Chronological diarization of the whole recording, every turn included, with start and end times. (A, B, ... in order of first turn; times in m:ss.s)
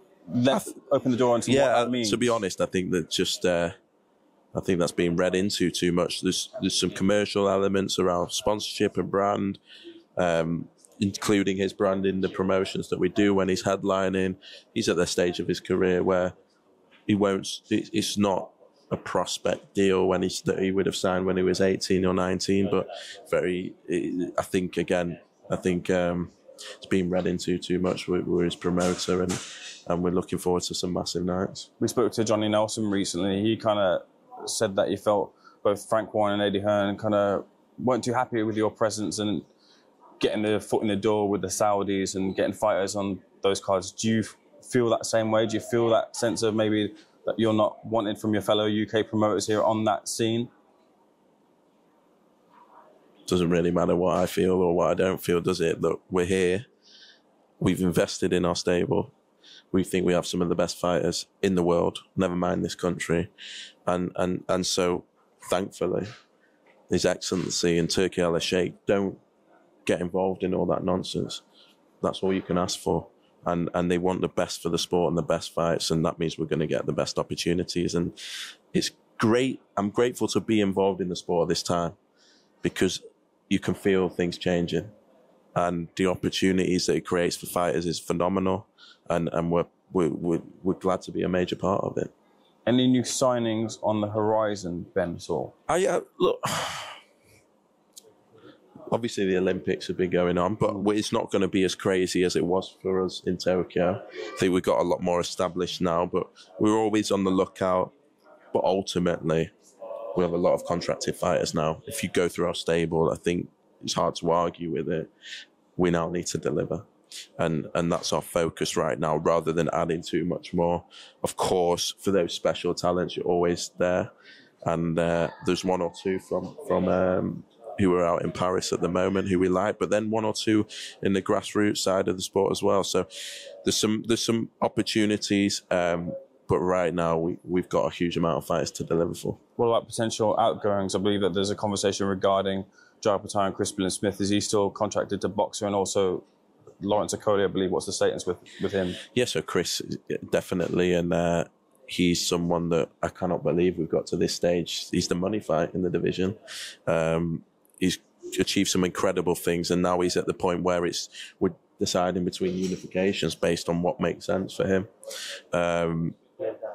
0:00.3-0:02.4 A
0:01.5-0:03.8 B
0:04.5-0:09.6 B
0:10.2-0:16.3 B
0:17.1-0:31.7 B
0:31.8-0:39.5 A
0:40.2-0:50.5 A
0:53.3-0:56.7 B
0:57.6-0:59.1 B
0:59.7-1:03.3 B
1:03.9-1:06.1 B
1:06.9-1:09.2 B
1:09.9-1:11.4 B
1:12.0-1:18.2 B
1:18.7-1:22.0 B
1:22.6-1:24.9 B
1:25.6-1:32.1 B
1:32.7-1:35.5 A
1:35.7-1:37.0 B
1:38.9-1:47.9 B
1:48.5-1:49.5 B
1:50.2-1:55.1 B
1:55.8-1:56.9 B
1:57.4-2:04.1 B
2:04.6-2:19.4 B
2:19.6-2:26.3 A
2:26.8-2:29.0 A
2:29.1-2:46.2 B